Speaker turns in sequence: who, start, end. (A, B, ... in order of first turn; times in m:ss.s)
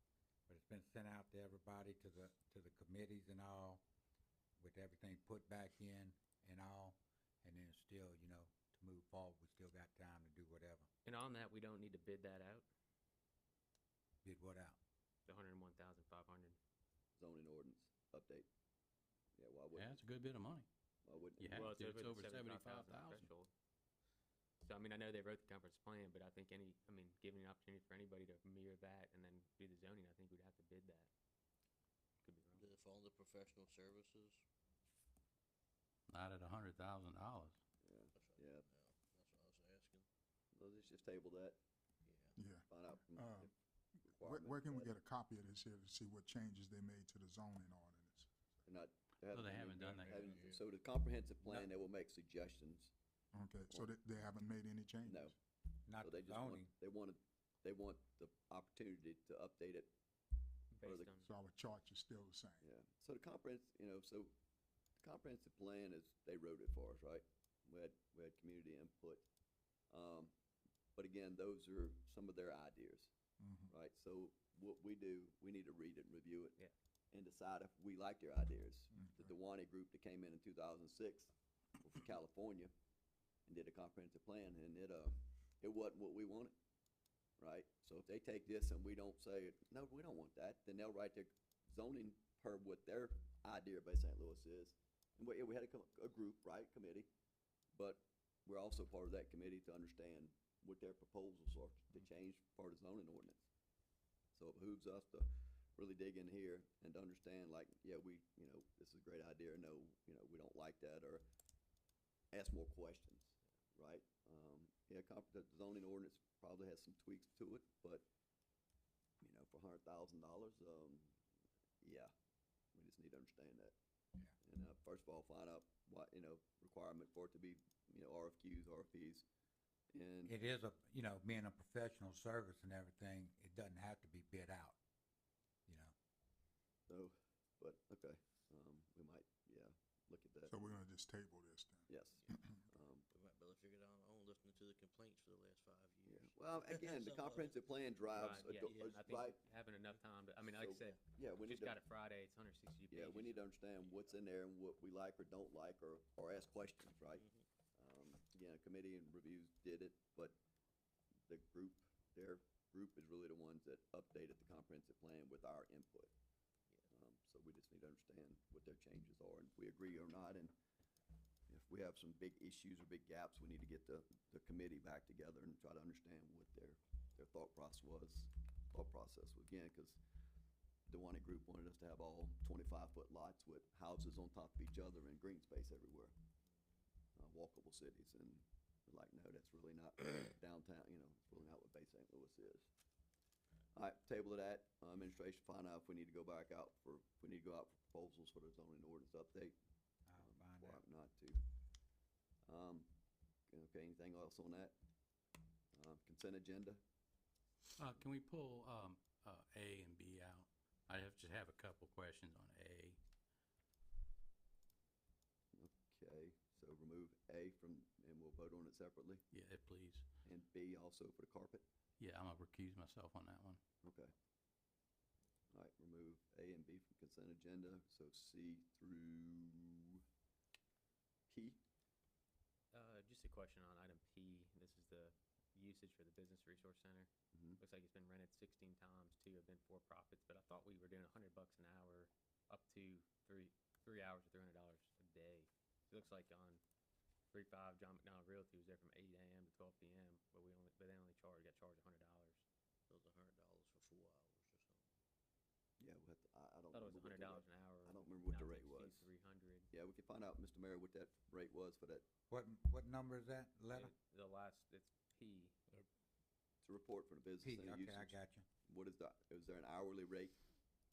0:00.5-0:03.8 A
0:04.6-0:10.9 A
0:11.0-0:12.6 B
0:14.2-0:14.8 A
0:15.3-0:16.6 B
0:17.2-0:18.5 C
0:19.4-0:20.0 C
0:19.7-0:20.7 D
0:21.0-0:21.7 C
0:21.4-0:23.3 D
0:21.5-0:23.5 B
0:24.6-0:31.1 B
0:32.2-0:32.7 B
0:32.5-0:34.4 E
0:36.1-0:37.6 D
0:37.8-0:38.7 C
0:38.1-0:40.0 E
0:40.5-0:41.6 C
0:42.0-0:42.4 E
0:42.4-0:43.5 F
0:42.7-0:43.5 C
0:44.0-0:48.3 F
0:44.1-0:44.9 C
0:48.6-0:52.9 C
0:49.3-0:50.3 D
0:49.7-0:50.7 E
0:53.3-0:55.3 F
0:55.0-0:55.3 C
0:55.8-0:56.7 A
0:56.0-0:59.9 C
1:00.7-1:01.3 B
1:00.8-1:01.1 C
1:01.2-1:02.6 F
1:02.6-1:04.3 C
1:05.0-1:09.3 C
1:09.9-1:10.3 C
1:11.0-1:13.1 C
1:13.4-1:13.7 F
1:13.7-1:16.6 C
1:17.1-1:22.7 C
1:18.9-1:19.3 F
1:23.5-1:26.6 C
1:27.4-1:37.1 C
1:37.7-1:43.5 C
1:44.3-1:51.2 C
1:52.3-1:58.1 C
1:59.2-2:01.2 C
2:01.8-2:02.1 C
2:02.7-2:03.8 C
2:04.4-2:09.2 C
2:09.9-2:10.3 C
2:10.2-2:14.8 A
2:15.7-2:15.9 A
2:16.9-2:20.6 C
2:20.5-2:22.7 F
2:21.9-2:23.1 C
2:23.1-2:27.6 E
2:26.0-2:29.4 C
2:28.1-2:33.5 B
2:30.5-2:31.8 C
2:32.9-2:40.4 C
2:37.2-2:37.5 E
2:41.3-2:46.1 C
2:46.9-2:50.5 C
2:51.5-3:00.0 C
3:00.9-3:06.1 C
3:07.2-3:12.7 C
3:13.7-3:19.6 C
3:20.1-3:20.8 A
3:20.2-3:21.4 C
3:22.4-3:22.9 C
3:23.5-3:24.8 C
3:25.7-3:26.8 C
3:27.8-3:33.0 D
3:35.5-3:39.2 C
3:39.3-3:40.1 D
3:40.2-3:41.7 C
3:42.0-3:43.6 D
3:43.8-3:44.1 C
3:45.5-3:50.0 C
3:51.3-3:51.6 C
3:52.7-4:06.6 B
3:57.3-3:57.6 C
4:07.3-4:12.4 B
4:12.9-4:14.9 E
4:15.8-4:19.1 C
4:16.7-4:19.7 B
4:19.7-4:22.0 C
4:22.3-4:23.9 A
4:23.7-4:25.5 B
4:26.6-4:30.4 C
4:27.4-4:28.4 A